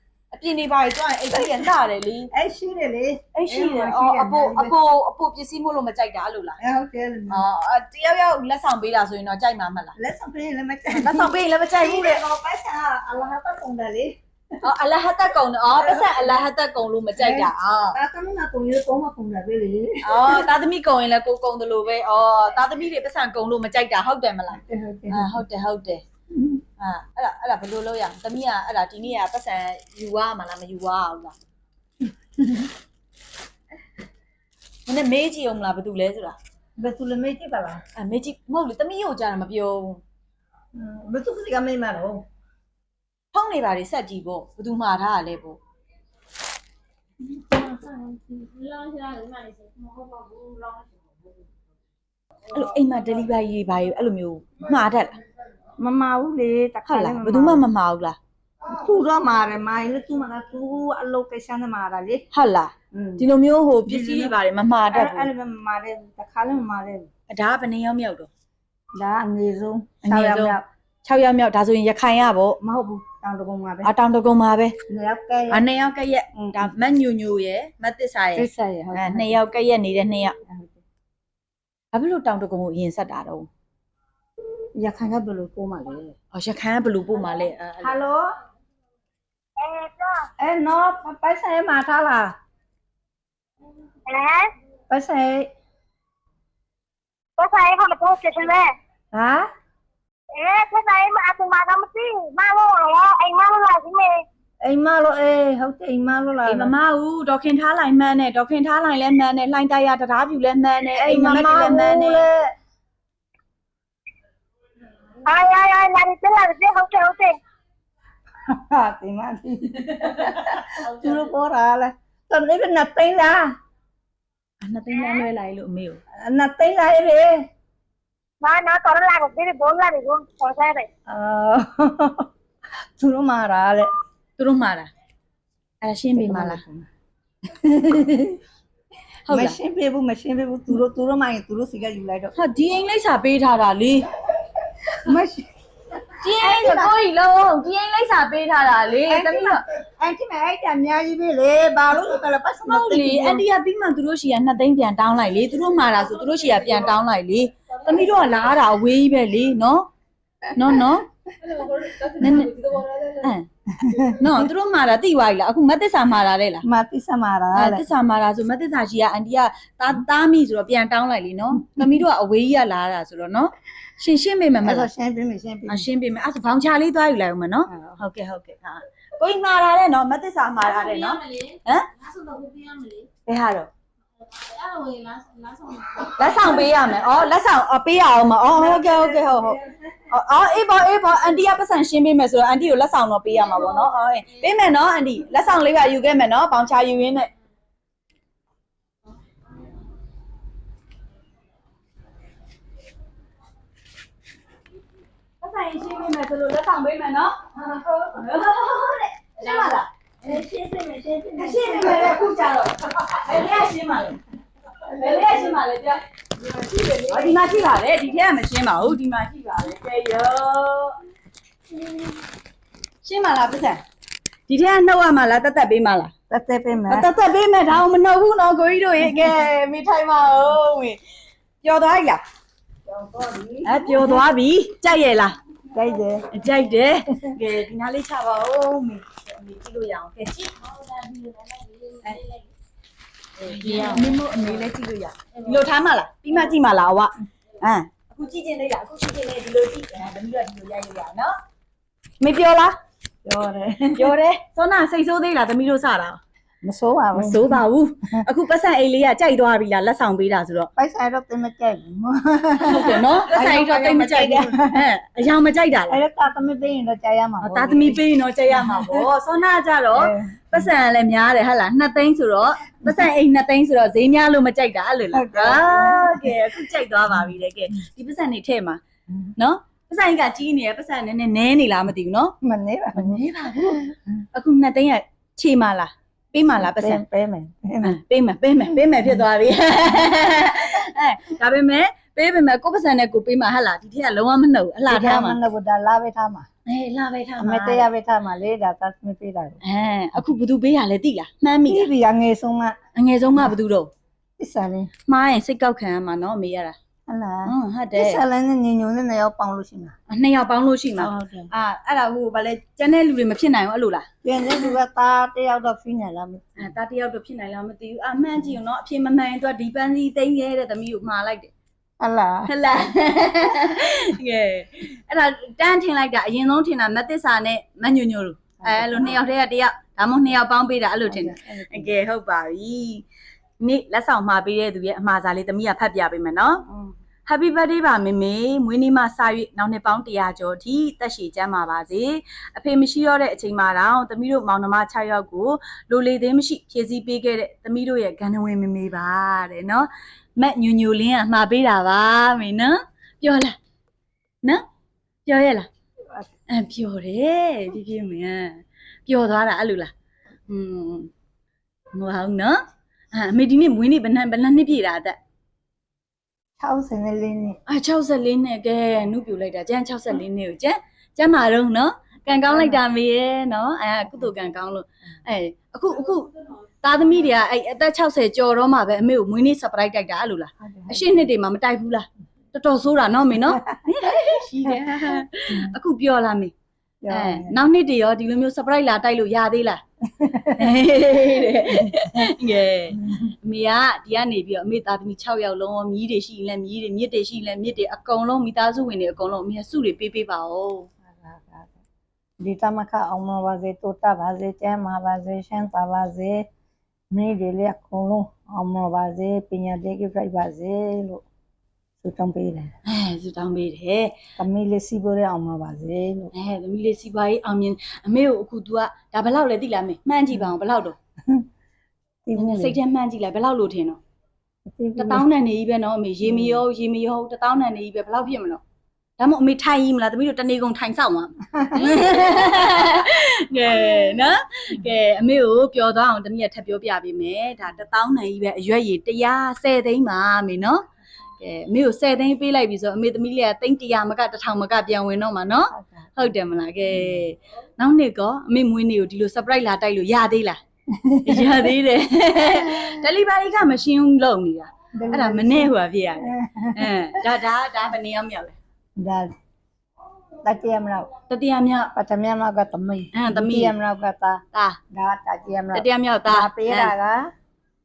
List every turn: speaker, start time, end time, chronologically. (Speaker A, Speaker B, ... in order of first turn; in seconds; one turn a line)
Speaker A: 0.3-2.3
Speaker B: 2.3-4.7
Speaker A: 3.3-6.6
Speaker B: 6.6-7.4
Speaker A: 7.3-9.9
Speaker B: 10.0-14.1
Speaker A: 10.9-12.2
Speaker A: 14.6-18.0
Speaker B: 15.8-16.2
Speaker B: 17.2-20.5
Speaker A: 20.0-26.0
Speaker B: 24.5-25.4
Speaker B: 26.3-26.6
Speaker A: 26.8-31.4
Speaker B: 32.4-32.7
Speaker A: 34.9-36.4
Speaker B: 36.8-37.8
Speaker A: 38.0-40.0
Speaker B: 40.7-42.2
Speaker A: 43.3-45.6
Speaker C: 48.2-50.8
Speaker A: 52.5-55.2
Speaker B: 55.8-57.6
Speaker A: 56.9-58.2
Speaker B: 58.7-62.2
Speaker A: 62.3-65.3
Speaker B: 62.9-63.2
Speaker B: 63.9-64.3
Speaker B: 64.9-67.1
Speaker A: 67.3-68.3
Speaker B: 68.9-70.6
Speaker A: 70.0-72.6
Speaker B: 72.6-73.9
Speaker A: 73.8-74.7
Speaker B: 74.9-75.6
Speaker A: 75.5-80.3
Speaker B: 76.4-76.7
Speaker B: 78.3-79.4
Speaker B: 80.5-80.8
Speaker A: 81.9-83.5
Speaker B: 84.8-86.1
Speaker A: 86.3-88.0
Speaker B: 87.8-88.3
Speaker D: 89.6-90.3
Speaker B: 90.4-92.3
Speaker D: 94.1-94.5
Speaker B: 94.9-95.5
Speaker D: 97.4-98.7
Speaker B: 99.1-99.5
Speaker D: 100.3-104.2
Speaker B: 104.6-106.7
Speaker A: 106.5-112.3
Speaker B: 111.0-112.5
Speaker D: 115.2-117.4
Speaker B: 118.5-123.5
Speaker A: 124.6-126.0
Speaker B: 126.2-127.4
Speaker D: 128.4-130.9
Speaker B: 131.1-132.3
Speaker B: 133.0-133.9
Speaker A: 134.4-134.9
Speaker A: 135.8-136.6
Speaker B: 136.1-136.9
Speaker B: 137.5-138.4
Speaker A: 139.2-139.6
Speaker B: 139.3-142.3
Speaker A: 142.3-144.0
Speaker B: 145.0-145.4
Speaker A: 146.2-149.6
Speaker B: 146.2-146.9
Speaker B: 149.1-153.4
Speaker A: 152.7-159.9
Speaker A: 160.5-161.1
Speaker A: 162.1-162.5
Speaker A: 163.1-163.4
Speaker B: 163.8-164.2
Speaker A: 164.0-166.6
Speaker B: 166.6-167.8
Speaker A: 167.5-174.9
Speaker B: 174.6-175.9
Speaker A: 175.7-181.9
Speaker B: 177.7-178.0
Speaker C: 182.0-183.1
Speaker A: 183.2-183.7
Speaker C: 184.4-186.1
Speaker A: 186.1-197.3
Speaker B: 188.5-189.8
Speaker A: 205.4-207.4
Speaker B: 207.6-208.1
Speaker A: 208.1-209.9
Speaker B: 209.4-212.3
Speaker A: 211.4-214.2
Speaker A: 214.8-216.0
Speaker B: 215.0-215.5
Speaker B: 216.4-217.4
Speaker A: 217.1-221.0
Speaker A: 223.0-223.8
Speaker A: 224.5-226.1
Speaker B: 226.3-227.1
Speaker A: 226.9-231.0
Speaker A: 231.6-232.2
Speaker B: 232.8-234.2
Speaker A: 233.6-235.3
Speaker B: 235.7-236.2
Speaker A: 236.3-240.7
Speaker C: 240.9-241.9
Speaker A: 243.4-251.3
Speaker A: 252.2-252.7
Speaker B: 253.2-254.1
Speaker A: 253.9-256.2
Speaker B: 256.6-257.6
Speaker A: 257.1-260.7
Speaker B: 260.8-264.8
Speaker A: 262.6-266.0
Speaker B: 265.9-268.0
Speaker A: 267.4-278.8
Speaker B: 268.7-269.1
Speaker B: 269.9-270.4
Speaker B: 275.1-276.4
Speaker A: 279.4-282.3
Speaker B: 282.4-283.9
Speaker A: 282.9-287.0
Speaker B: 286.6-288.0
Speaker A: 287.8-295.4
Speaker B: 294.9-296.4
Speaker A: 296.7-297.9
Speaker B: 297.4-299.6
Speaker A: 299.6-301.9
Speaker B: 301.7-302.8
Speaker A: 302.9-303.9
Speaker B: 304.4-304.9
Speaker A: 305.1-306.8
Speaker B: 307.1-309.9
Speaker A: 307.4-308.2
Speaker A: 310.1-314.1
Speaker B: 311.0-311.5
Speaker B: 314.2-316.6
Speaker A: 316.6-321.5
Speaker B: 322.0-322.5
Speaker A: 322.5-333.0
Speaker B: 328.6-329.2
Speaker B: 331.1-332.0
Speaker A: 333.6-336.6
Speaker B: 336.7-336.9
Speaker A: 337.2-353.6
Speaker A: 355.2-355.7
Speaker A: 356.5-359.9
Speaker A: 360.5-361.1
Speaker A: 361.9-362.6
Speaker A: 363.1-365.2
Speaker B: 366.6-367.6
Speaker A: 367.7-376.3
Speaker B: 372.5-372.8
Speaker A: 376.8-386.5
Speaker B: 380.6-381.2
Speaker B: 384.7-385.7
Speaker B: 387.0-387.6
Speaker A: 387.1-389.8
Speaker B: 390.2-390.6
Speaker A: 390.4-400.9
Speaker B: 401.1-401.8
Speaker B: 402.4-406.4
Speaker B: 407.1-411.2
Speaker B: 412.0-412.7
Speaker A: 412.9-414.1
Speaker B: 414.4-416.3
Speaker A: 416.3-420.9
Speaker B: 422.2-422.8
Speaker A: 422.4-424.0
Speaker B: 424.7-425.2
Speaker A: 425.0-428.6
Speaker B: 426.2-426.6
Speaker A: 429.2-440.8
Speaker B: 431.6-432.1
Speaker A: 441.4-450.6
Speaker B: 445.8-446.1
Speaker B: 450.9-451.6
Speaker A: 451.2-458.6
Speaker B: 455.0-456.9
Speaker B: 459.0-459.3
Speaker B: 460.4-461.1
Speaker A: 461.3-461.9
Speaker B: 461.9-467.3
Speaker A: 463.1-463.7
Speaker A: 465.7-466.9